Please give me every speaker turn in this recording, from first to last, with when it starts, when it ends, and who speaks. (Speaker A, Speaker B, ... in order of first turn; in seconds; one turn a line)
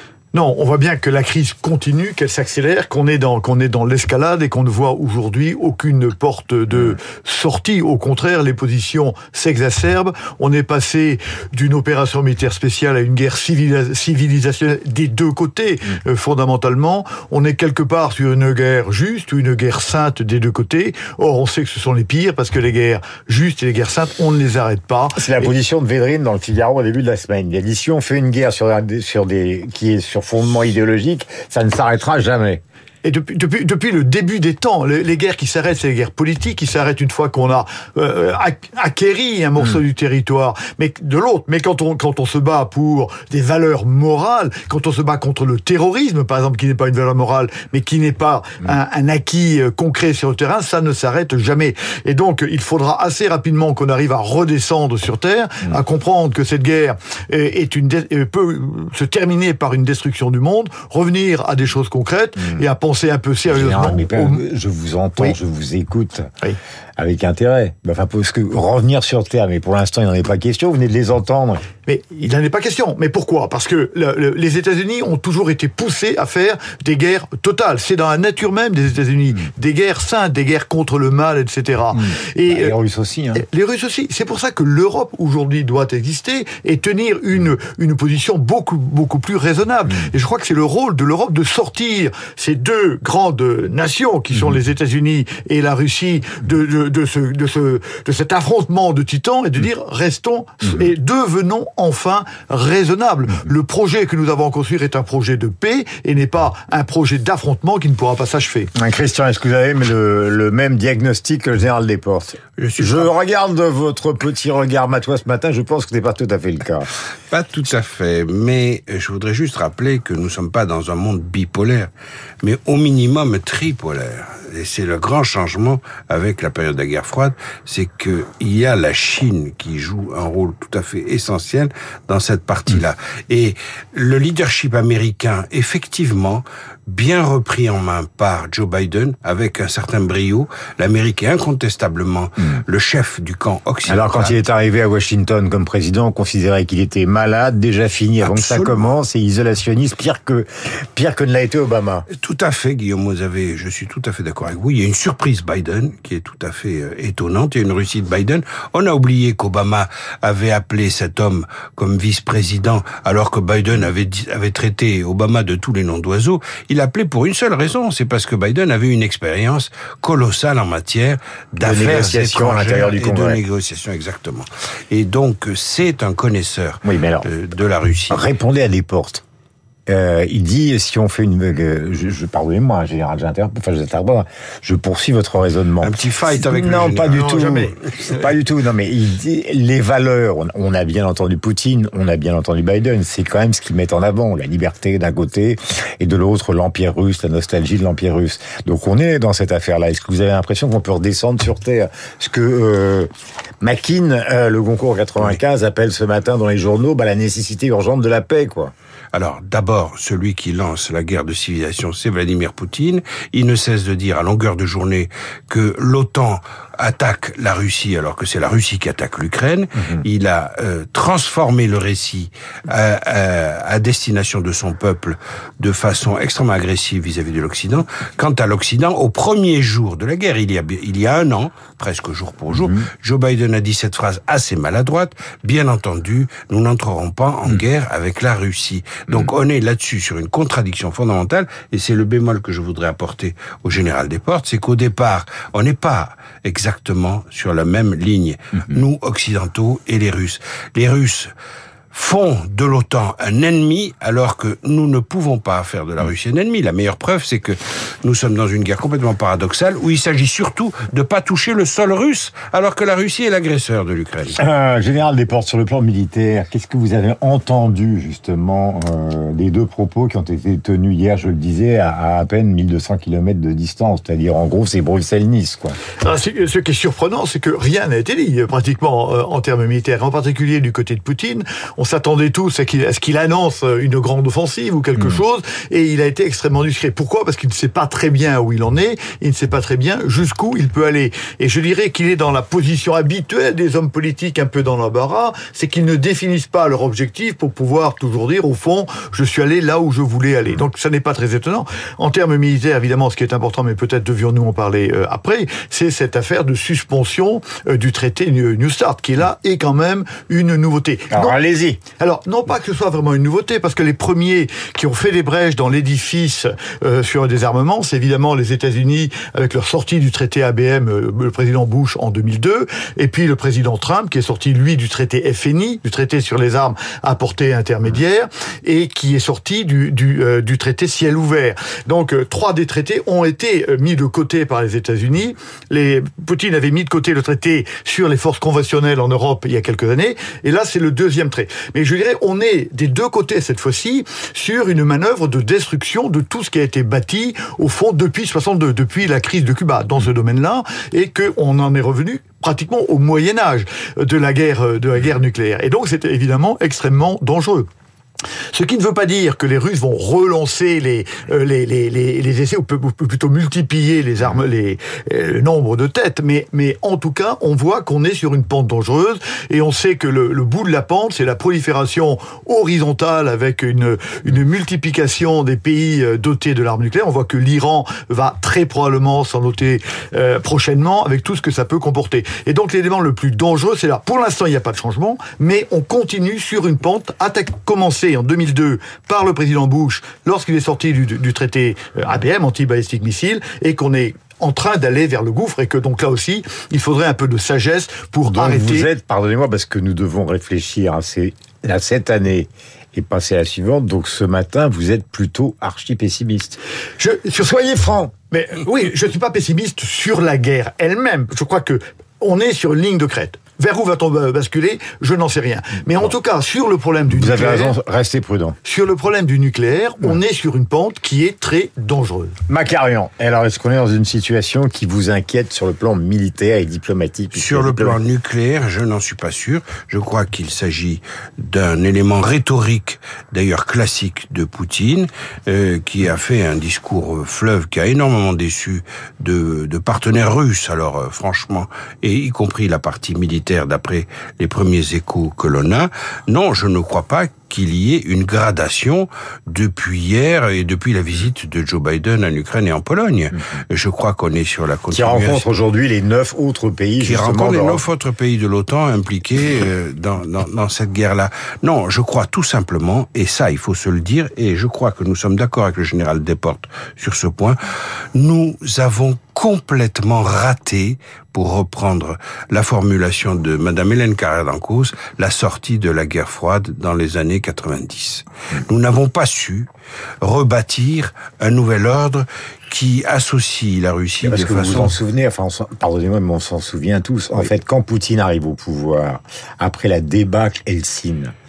Speaker A: 0.3-25.5
Speaker B: 25.2-32.6
Speaker A: 33.0-64.4
Speaker B: 63.5-66.3
Speaker B: 67.0-71.7
Speaker A: 71.8-82.7
Speaker B: 81.9-83.4
Speaker A: 83.3-108.7
Speaker B: 108.8-116.9
Speaker C: 112.6-113.1
Speaker C: 117.3-121.9
Speaker C: 122.4-144.4
Speaker B: 143.9-152.1
Speaker C: 148.2-148.9
Speaker C: 152.2-178.2
Speaker B: 171.6-173.4
Speaker B: 176.8-177.3
Speaker B: 178.1-179.2
Speaker B: 179.9-203.1
Speaker C: 185.8-188.0
Speaker A: 187.1-187.8
Speaker B: 203.6-208.7
Speaker C: 209.1-251.3
Speaker C: 251.9-264.4
Speaker B: 264.4-275.8
Speaker A: 276.0-311.4
Speaker B: 311.1-311.8
Speaker A: 311.9-357.7
Speaker A: 358.5-398.9
Speaker B: 398.3-406.6
Speaker A: 407.0-407.5
Speaker B: 407.4-408.1
Speaker A: 408.2-417.8
Speaker B: 417.1-418.6
Speaker A: 418.6-422.4
Speaker B: 422.5-428.0
Speaker C: 427.3-455.5
Speaker B: 454.9-457.8
Speaker C: 457.0-467.6
Speaker C: 468.1-479.7
Speaker C: 480.2-484.9
Speaker B: 484.2-491.3